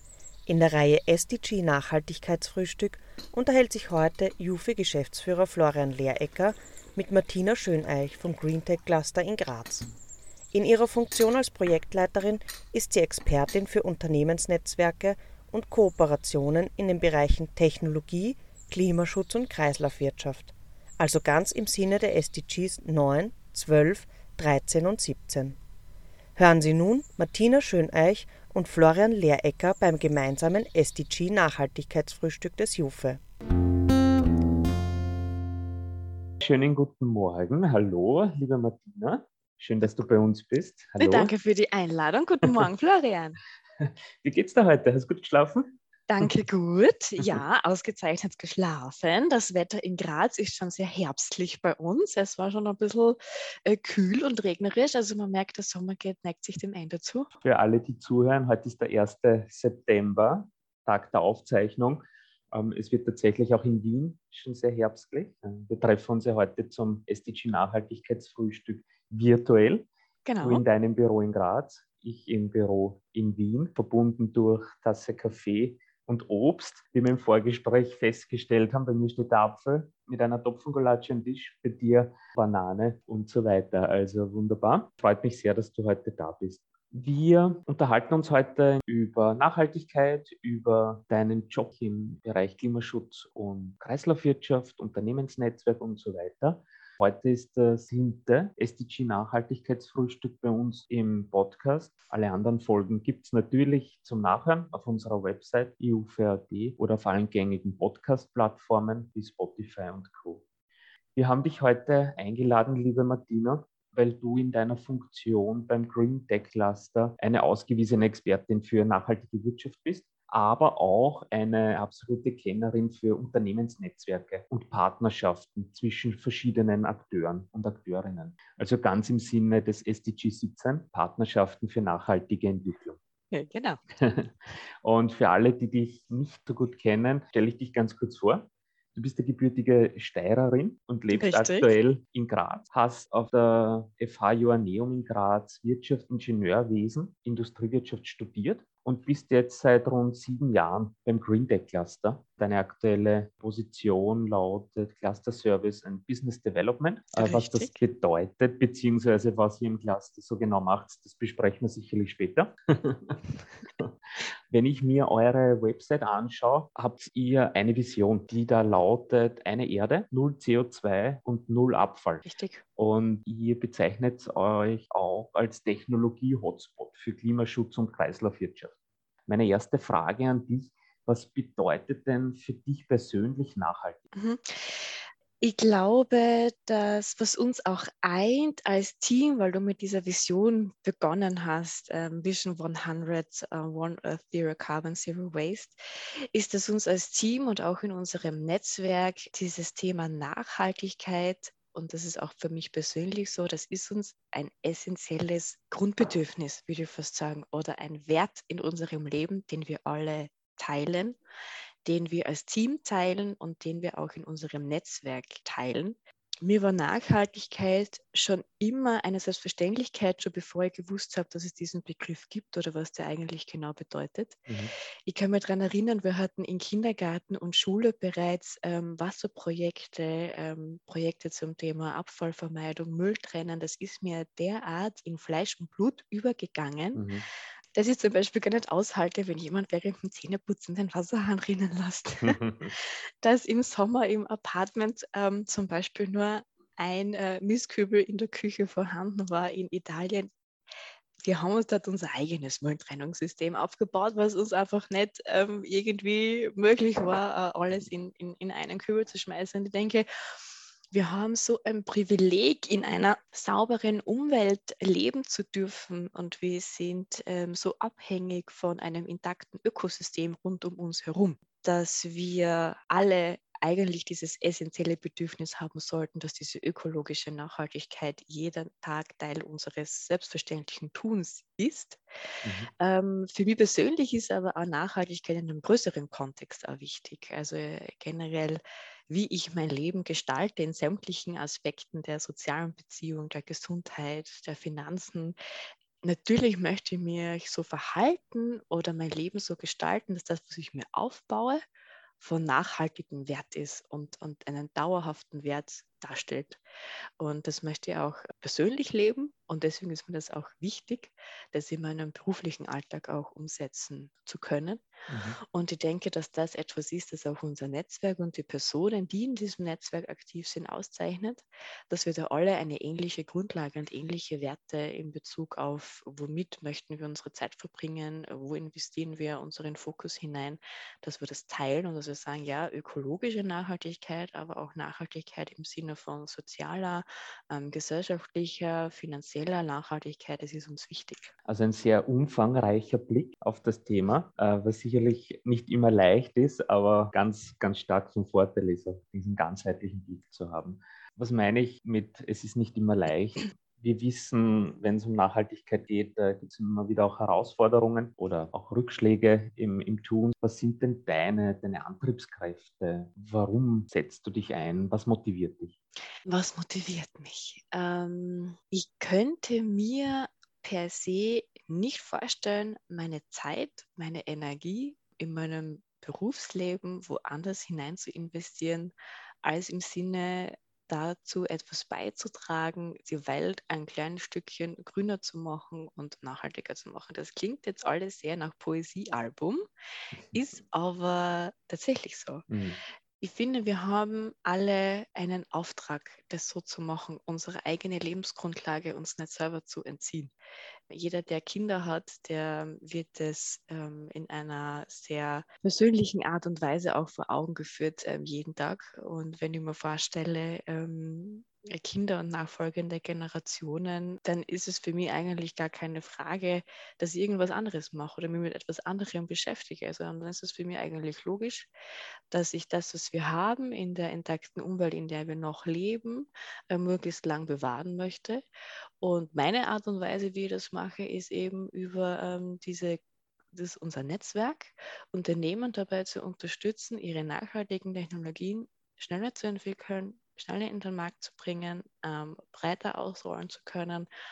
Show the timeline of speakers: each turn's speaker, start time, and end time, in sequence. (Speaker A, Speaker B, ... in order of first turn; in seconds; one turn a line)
Speaker A: 0.5-9.9
Speaker A: 10.5-25.6
Speaker A: 26.4-33.2
Speaker B: 36.4-41.3
Speaker C: 41.0-43.4
Speaker B: 43.8-46.2
Speaker C: 46.1-57.3
Speaker B: 57.4-69.9
Speaker C: 70.2-70.6
Speaker B: 70.4-110.4
Speaker B: 111.2-133.0
Speaker C: 133.3-133.8
Speaker B: 134.0-134.3
Speaker B: 134.8-163.2
Speaker C: 141.1-141.7
Speaker C: 157.2-157.8
Speaker B: 164.5-178.7
Speaker C: 172.2-172.6
Speaker B: 179.3-184.0
Speaker C: 184.1-195.7
Speaker C: 196.3-211.2
Speaker C: 211.8-224.5
Speaker C: 225.1-237.0
Speaker B: 236.9-237.2
Speaker C: 237.8-250.3
Speaker B: 242.2-242.7
Speaker C: 251.2-260.1
Speaker C: 260.9-282.0
Speaker B: 282.4-282.7
Speaker C: 282.8-295.4
Speaker C: 296.0-301.6
Speaker C: 302.2-306.6
Speaker C: 307.2-314.8
Speaker B: 315.1-315.4
Speaker C: 315.4-341.3
Speaker B: 341.4-365.7
Speaker C: 366.3-378.9
Speaker C: 379.4-389.7
Speaker C: 390.3-392.4
Speaker B: 392.5-392.8
Speaker C: 393.2-400.3
Speaker C: 400.9-421.7
Speaker C: 422.3-428.4
Speaker C: 429.0-433.0
Speaker C: 433.5-444.1